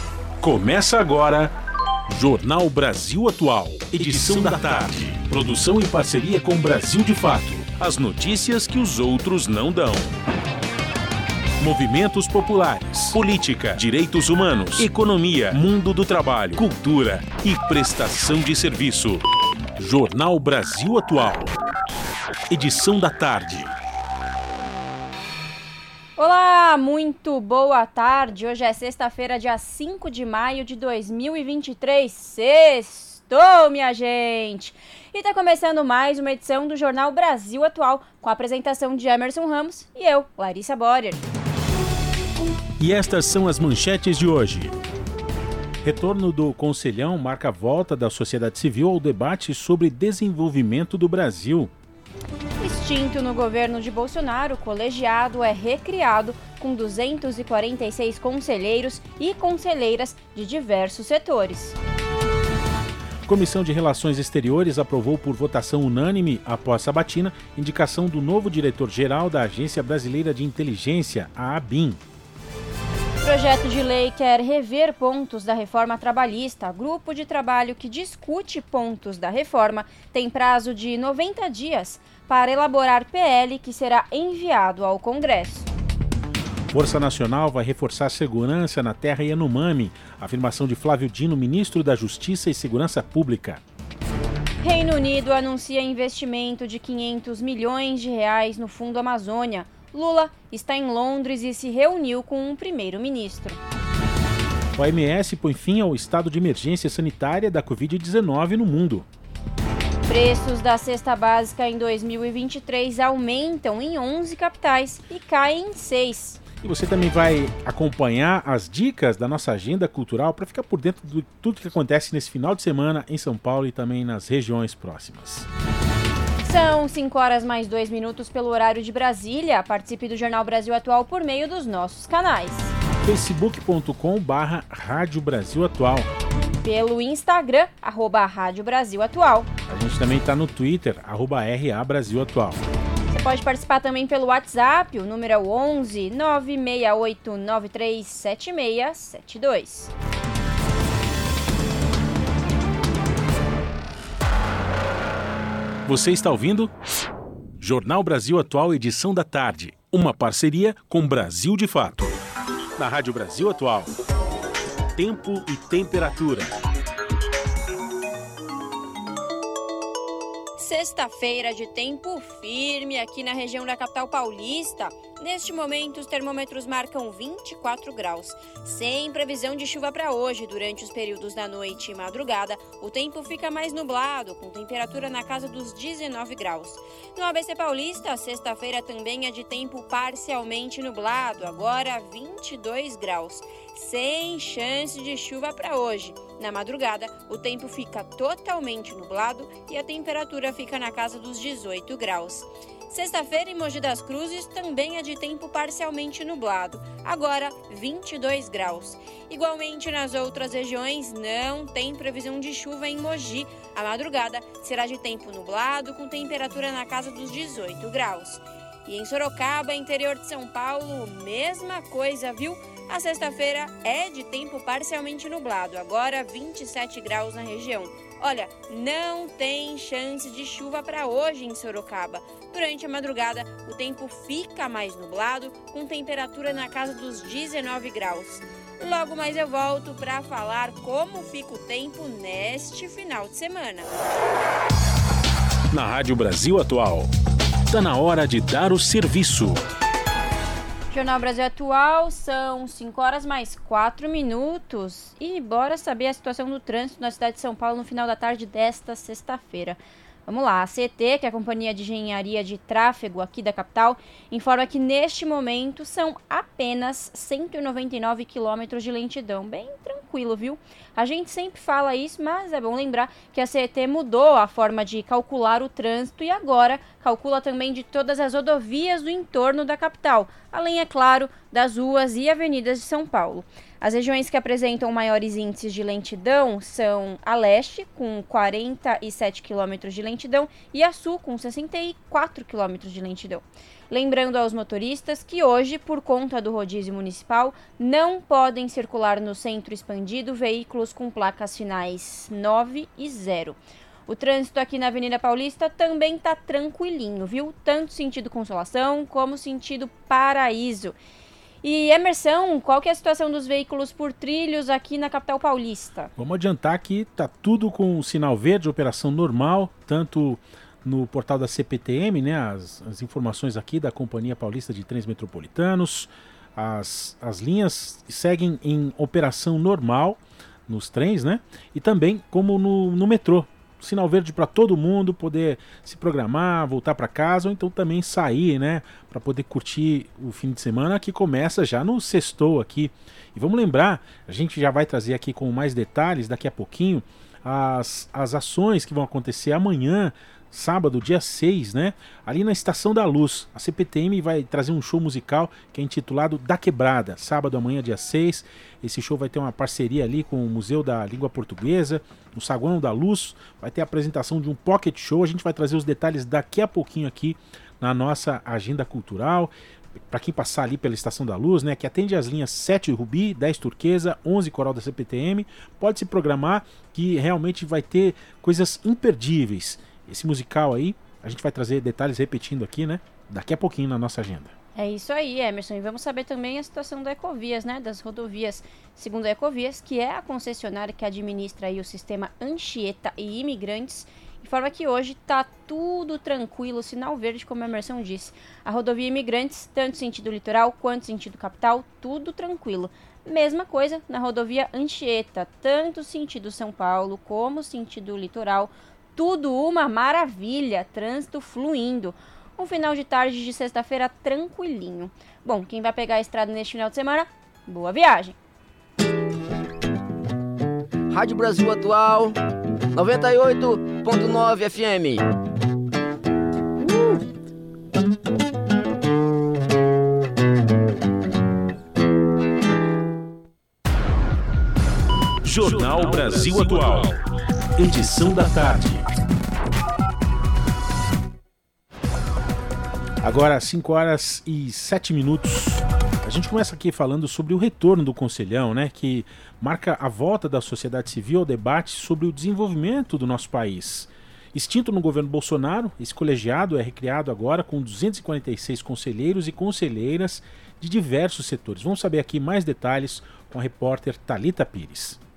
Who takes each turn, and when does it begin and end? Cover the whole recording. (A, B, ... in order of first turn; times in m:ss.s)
0:00.4-0:01.5 A
0:02.1-0:10.1 A
0:11.6-0:19.2 A
0:19.8-0:21.5 A
0:22.5-0:23.7 A
0:26.2-0:41.2 B
0:42.8-0:44.7 A
0:45.8-0:51.7 A
0:52.6-1:01.8 B
1:03.2-1:12.0 A
1:13.2-1:25.7 B
1:26.7-1:33.6 A
1:34.6-1:43.6 B
1:44.8-1:49.0 A
1:50.0-1:56.4 B
1:56.6-2:05.5 A
2:06.4-2:12.7 B
2:13.0-2:16.1 A
2:16.6-2:19.5 B
2:19.7-2:22.6 A
2:23.1-2:29.9 B
2:35.8-2:36.7 A
2:37.6-2:42.2 A
2:42.8-2:43.9 A
2:44.9-2:46.5 A
2:50.6-4:03.9 B
4:05.7-4:07.1 A
4:07.7-4:09.6 A
4:10.9-5:10.9 B
5:11.6-5:16.1 B
5:16.2-6:09.5 A
6:10.1-6:24.5 A
6:24.7-6:58.4 B
7:01.1-7:02.4 C
7:02.9-7:05.2 C
7:15.4-7:17.2 A
7:17.8-7:19.1 A
7:23.2-7:45.2 A